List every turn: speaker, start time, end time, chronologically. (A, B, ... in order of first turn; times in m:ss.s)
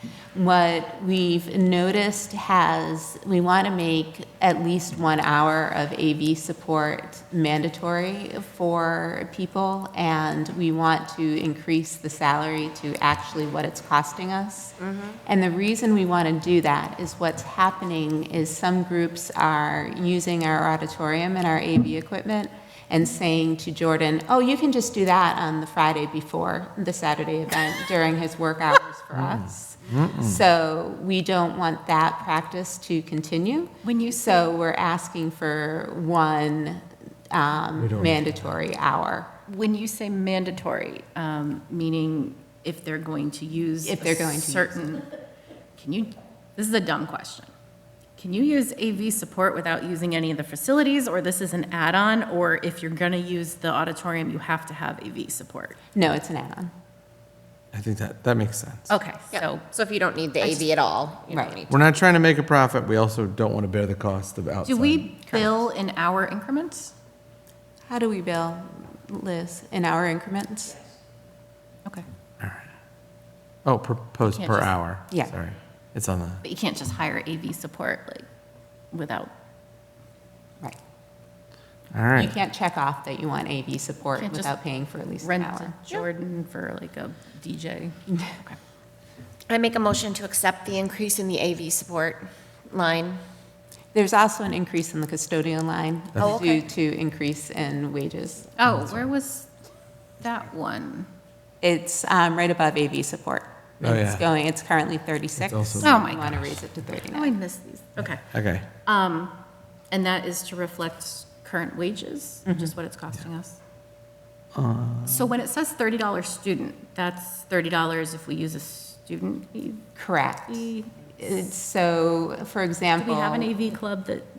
0:00.3-0:39.3 A
0:14.8-0:15.2 B
0:29.1-0:30.4 C
0:33.8-0:34.5 D
0:37.8-0:38.5 C
0:39.5-0:45.1 D
0:43.8-0:44.8 A
0:45.8-0:47.5 D
0:48.2-0:55.8 D
0:56.0-0:56.7 A
0:57.7-0:58.9 C
0:58.9-0:59.6 D
0:59.3-1:01.8 B
1:00.4-1:00.7 D
1:01.3-1:01.6 A
1:01.7-1:05.1 C
1:04.6-1:06.9 D
1:05.3-1:05.6 A
1:07.9-1:10.8 A
1:12.4-1:12.6 C
1:13.6-1:16.4 C
1:14.3-1:14.8 D
1:16.4-1:18.2 D
1:18.9-1:19.3 D
1:21.9-1:22.3 C
1:22.2-1:25.8 A
1:24.2-1:24.6 D
1:25.2-1:28.6 D
1:29.5-1:33.2 B
1:33.9-1:38.5 A
1:38.6-1:39.5 D
1:38.7-1:39.0 C
1:40.2-1:41.1 D
1:41.6-1:47.3 A
1:43.8-1:44.2 C
1:45.4-1:46.5 C
1:45.8-1:46.4 D
1:47.1-1:48.3 D
1:48.3-1:48.7 C
1:48.8-1:49.4 D
1:49.9-1:53.6 D
1:52.5-1:52.7 A
1:54.6-1:55.3 C
1:55.1-1:59.9 D
2:00.0-2:03.7 A
2:00.5-2:00.9 D
2:03.0-2:04.3 D